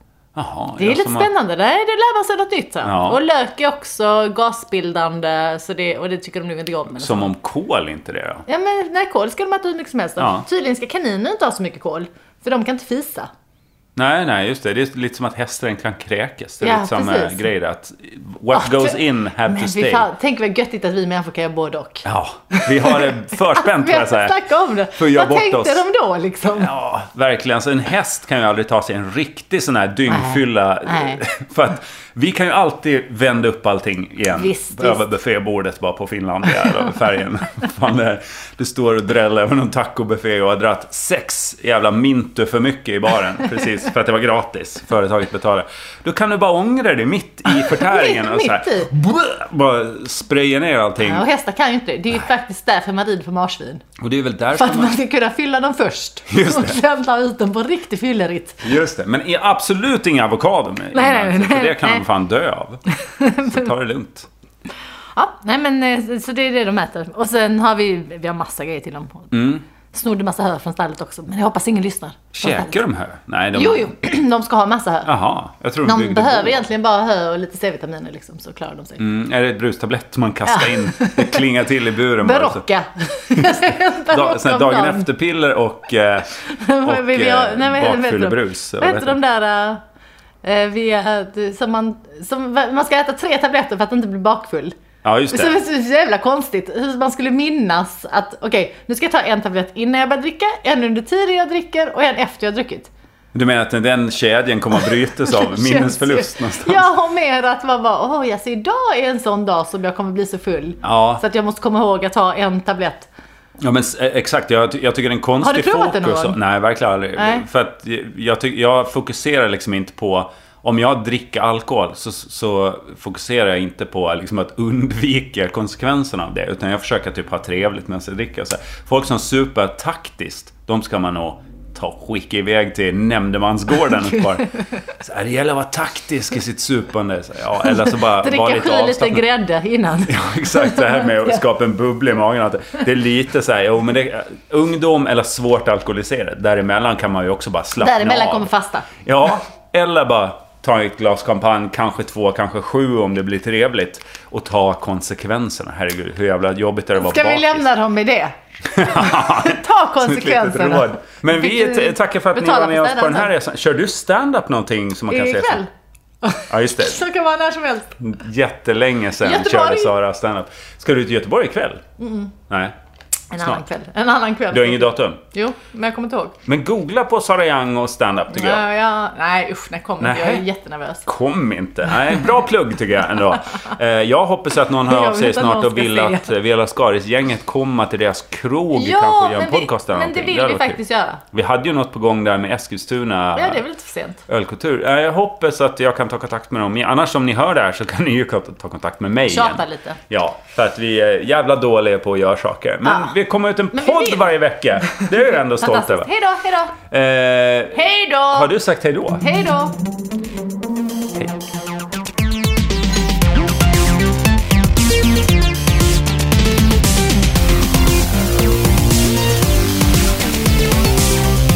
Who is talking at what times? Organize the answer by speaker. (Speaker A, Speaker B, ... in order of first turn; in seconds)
Speaker A: 0.3-1.3, 2.8-3.2, 7.0-8.4, 10.2-10.4, 14.0-20.1, 22.1-24.4, 25.0-25.8, 26.6-51.2, 54.0-54.9, 56.3-56.8, 58.6-64.3, 69.3-69.6, 72.3-73.9, 75.1-76.7, 79.0-82.6, 83.3-89.2, 95.0-95.6, 103.3-106.9, 110.8-111.2, 113.6-139.3, 140.1-148.5, 149.0-157.6, 158.7-165.6, 166.5-167.0, 168.0-171.8, 172.5-172.7, 174.5-175.2, 176.5-178.6, 180.0-180.4, 181.1-190.8, 191.3-193.6, 194.3-206.1, 206.8-209.2
Speaker B: 0.8-7.3, 8.5-13.3, 16.6-17.5, 18.5-26.7, 30.1-31.2, 34.3-35.0, 47.5-48.9, 51.0-53.8, 54.5-58.7, 60.9-62.0, 63.0-63.6, 65.1-69.3, 69.9-72.8, 73.5-75.1, 75.8-79.0, 80.5-81.5, 82.2-85.1, 86.4-89.8, 90.4-94.8, 95.3-102.9, 105.2-113.1, 115.4-116.4, 117.2-117.4, 137.7-141.4, 147.8-148.9, 157.0-163.3, 165.1-165.7, 166.2-168.0, 169.2-169.9, 172.0-172.3, 173.3-176.4, 178.3-181.1, 184.8-186.3, 188.8-191.2, 193.4-194.2, 199.3-200.0, 202.8-203.1, 203.7-204.3, 205.5-206.8, 207.7-208.5, 209.2-209.8